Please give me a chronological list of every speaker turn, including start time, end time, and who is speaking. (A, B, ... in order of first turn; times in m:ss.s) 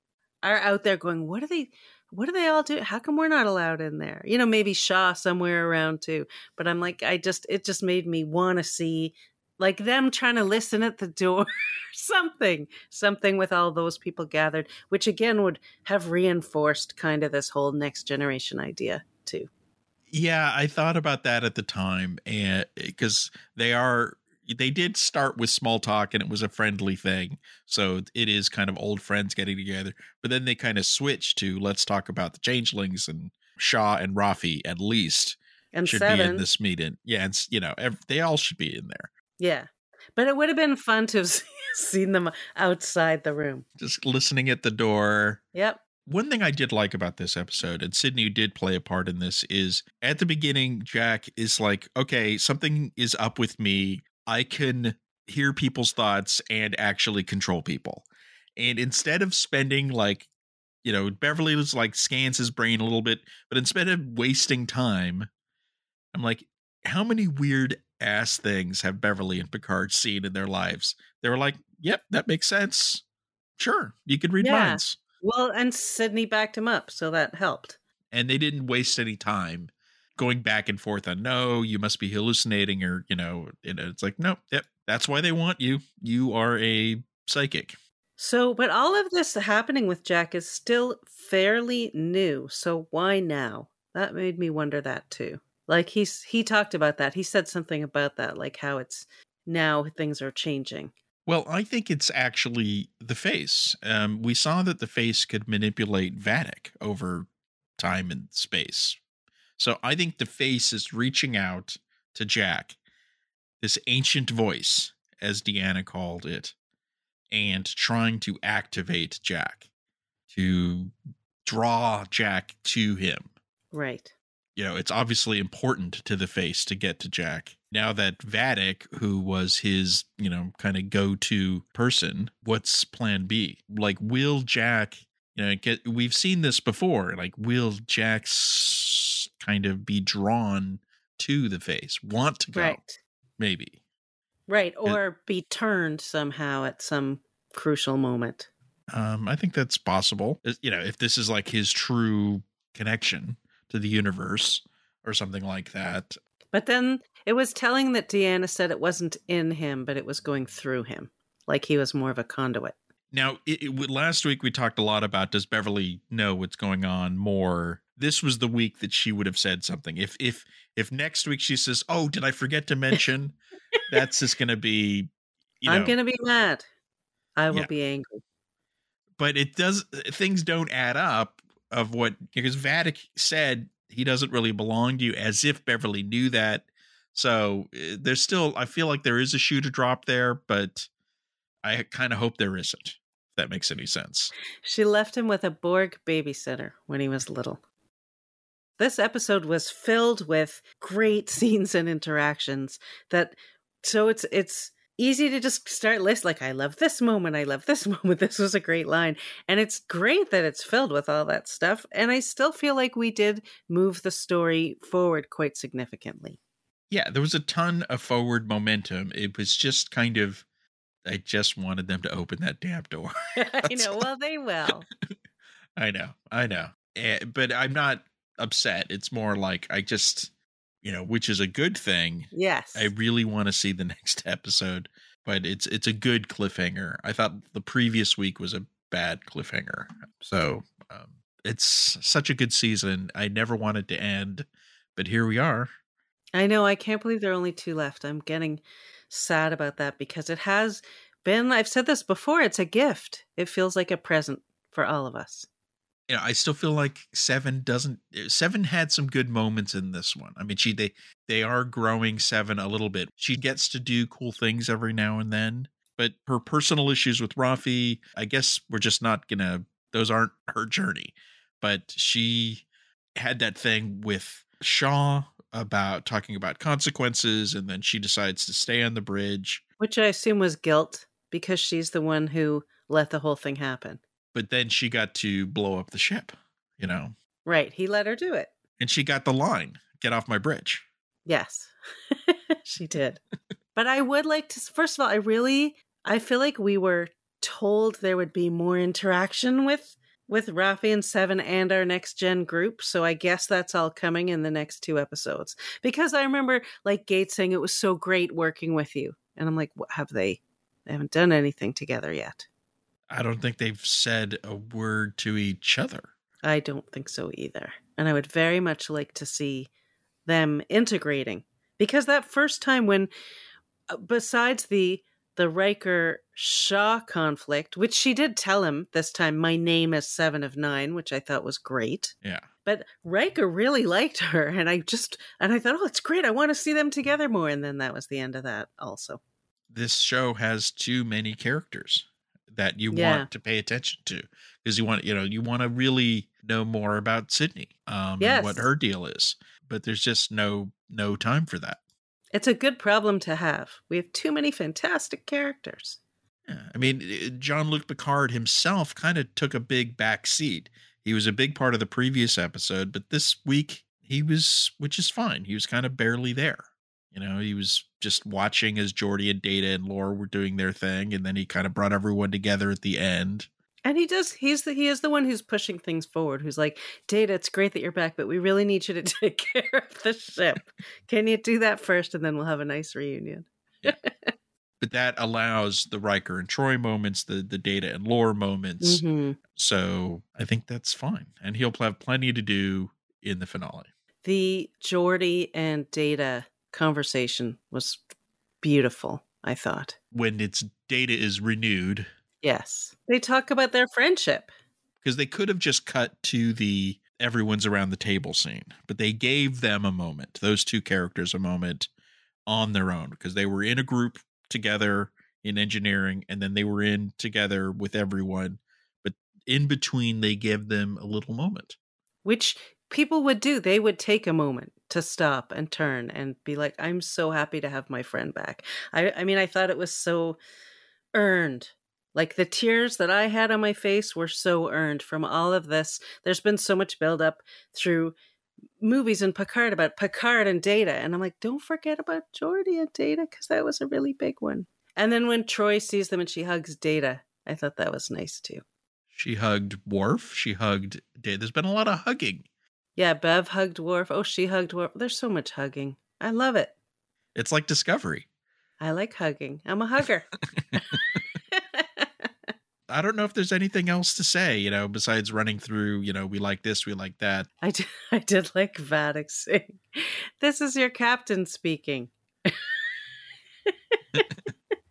0:00.4-0:19.5 A
0:20.1-0:39.1 B
0:35.7-0:36.4 A
0:39.4-0:43.6 A
0:43.8-0:45.4 B
0:45.5-0:45.8 A
0:46.0-0:58.0 B
0:58.6-1:00.3 B
1:00.8-1:05.3 B
1:06.1-1:13.0 B
1:13.6-1:15.0 B
1:14.4-1:17.8 A
1:18.1-1:27.8 B
1:28.2-1:40.9 A
1:41.2-1:47.3 B
1:47.8-1:49.0 B
1:49.6-1:52.8 B
1:53.6-1:56.5 B
1:57.3-1:59.6 B
2:00.3-2:03.3 B
2:03.7-2:04.1 A
2:04.6-2:22.8 B
2:22.5-2:23.0 A
2:23.4-2:23.8 B
2:24.5-2:28.5 A
2:28.9-2:36.2 B
2:36.5-2:42.7 A
2:43.1-2:53.4 B
2:53.9-2:55.1 B
2:55.6-2:55.9 B
2:55.7-2:56.6 A
2:57.4-2:58.2 A
2:59.2-3:10.9 B
3:11.6-3:14.3 B
3:14.6-3:17.6 A
3:18.8-3:36.4 A
3:36.9-3:40.4 B
3:41.0-3:44.0 B
3:43.4-3:44.8 A
3:45.8-3:50.3 B
3:50.8-4:05.7 B
3:52.3-3:52.9 A
4:06.3-4:15.5 A
4:16.1-4:32.6 B
4:33.2-4:39.6 B
4:39.8-4:44.0 A
4:44.3-4:47.1 B
4:47.4-4:48.5 A
4:48.8-4:50.8 B
4:51.2-4:53.2 A
4:53.8-5:12.4 A
5:13.1-5:16.1 B
5:16.4-5:19.7 A
5:20.2-5:23.1 A
5:23.9-5:32.1 A
5:32.6-5:39.2 A
5:39.7-5:51.8 B
5:42.9-5:43.3 A
5:48.2-5:48.7 A
5:52.3-5:56.0 A
5:56.5-6:13.5 B
6:13.8-6:24.3 A
6:24.8-6:29.0 B
6:28.8-6:29.4 A
6:29.5-6:33.9 B
6:34.2-6:38.0 A
6:38.6-6:40.0 A
6:40.1-6:42.1 B
6:42.4-6:44.5 A
6:45.0-6:51.9 B
6:52.5-7:01.8 B
7:02.2-7:10.4 A
7:11.1-7:18.1 A
7:18.8-7:28.6 A
7:29.1-7:32.4 B
7:33.0-7:36.7 A
7:37.4-7:38.2 B
7:38.8-7:42.3 A
7:40.5-7:41.2 B
7:42.9-7:47.5 B
7:47.6-7:52.8 A
7:53.9-7:54.2 A